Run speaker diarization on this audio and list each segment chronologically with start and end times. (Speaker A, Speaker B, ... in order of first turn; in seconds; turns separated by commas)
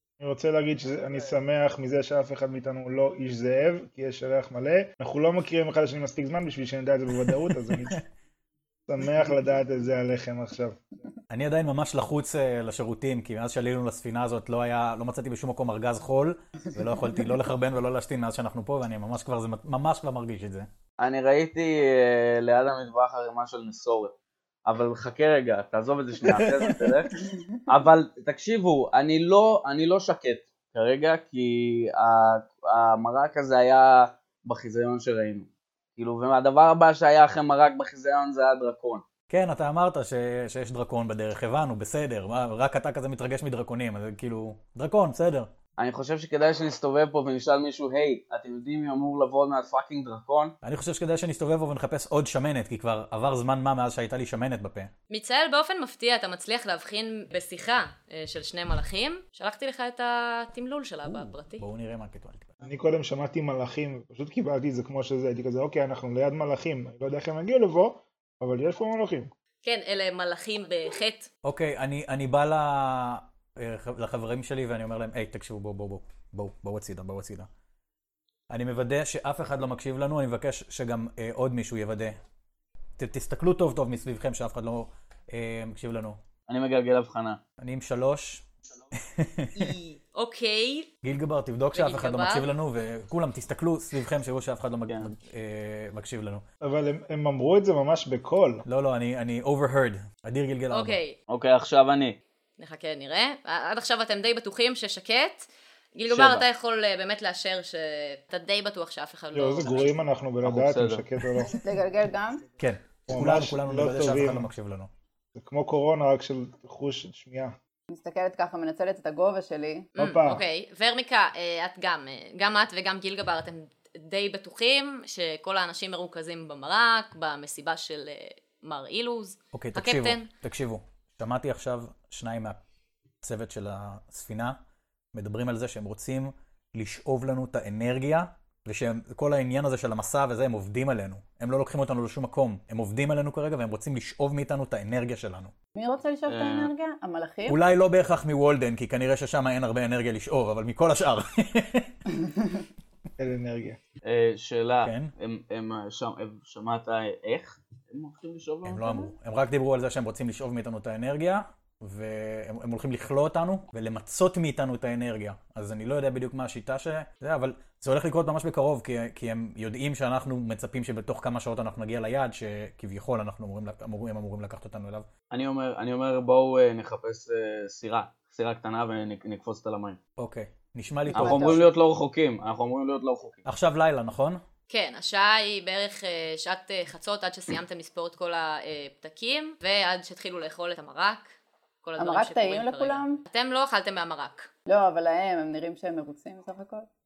Speaker A: 0.2-8.0, Speaker A: 8.9-10.8, Speaker B: 11.3-20.7, Speaker C: 21.0-24.1, Speaker C: 24.6-39.0, Speaker B: 39.3-45.5, Speaker C: 45.8-50.5, Speaker B: 50.6-54.9, Speaker D: 55.1-61.6, Speaker B: 61.0-62.6, Speaker A: 62.6-69.3, Speaker D: 69.6-71.3, Speaker B: 71.4-77.5, Speaker B: 78.5-82.2, Speaker B: 83.0-86.2, Speaker C: 86.5-87.4, Speaker B: 87.6-88.4, Speaker B: 89.0-89.7, Speaker D: 89.5-90.9, Speaker B: 91.0-96.4, Speaker D: 91.7-92.5, Speaker A: 96.6-98.6, Speaker B: 98.7-101.0, Speaker D: 100.7-101.1, Speaker C: 101.3-102.2, Speaker D: 102.6-109.8, Speaker C: 106.1-106.4, Speaker A: 109.3-111.5, Speaker C: 110.4-111.0, Speaker E: 111.5-112.5, Speaker B: 112.6-114.9, Speaker A: 113.1-114.5, Speaker A: 115.3-117.5, Speaker E: 117.9-119.8, Speaker D: 120.0-130.3, Speaker A: 120.0-120.4, Speaker B: 129.5-132.6, Speaker B: 133.2-134.6, Speaker B: 135.1-145.5, Speaker E: 145.7-147.6, Speaker C: 146.2-146.7, Speaker B: 147.5-151.9, Speaker A: 153.2-153.8, Speaker C: 154.0-159.0, Speaker B: 154.8-155.1, Speaker B: 158.6-175.1, Speaker C: 175.3-180.0, Speaker B: 180.2-181.5, Speaker E: 181.1-181.7, Speaker C: 181.1-183.4, Speaker B: 183.4-184.4, Speaker D: 184.7-191.3, Speaker D: 191.8-194.5, Speaker E: 192.0-193.2, Speaker E: 194.7-196.9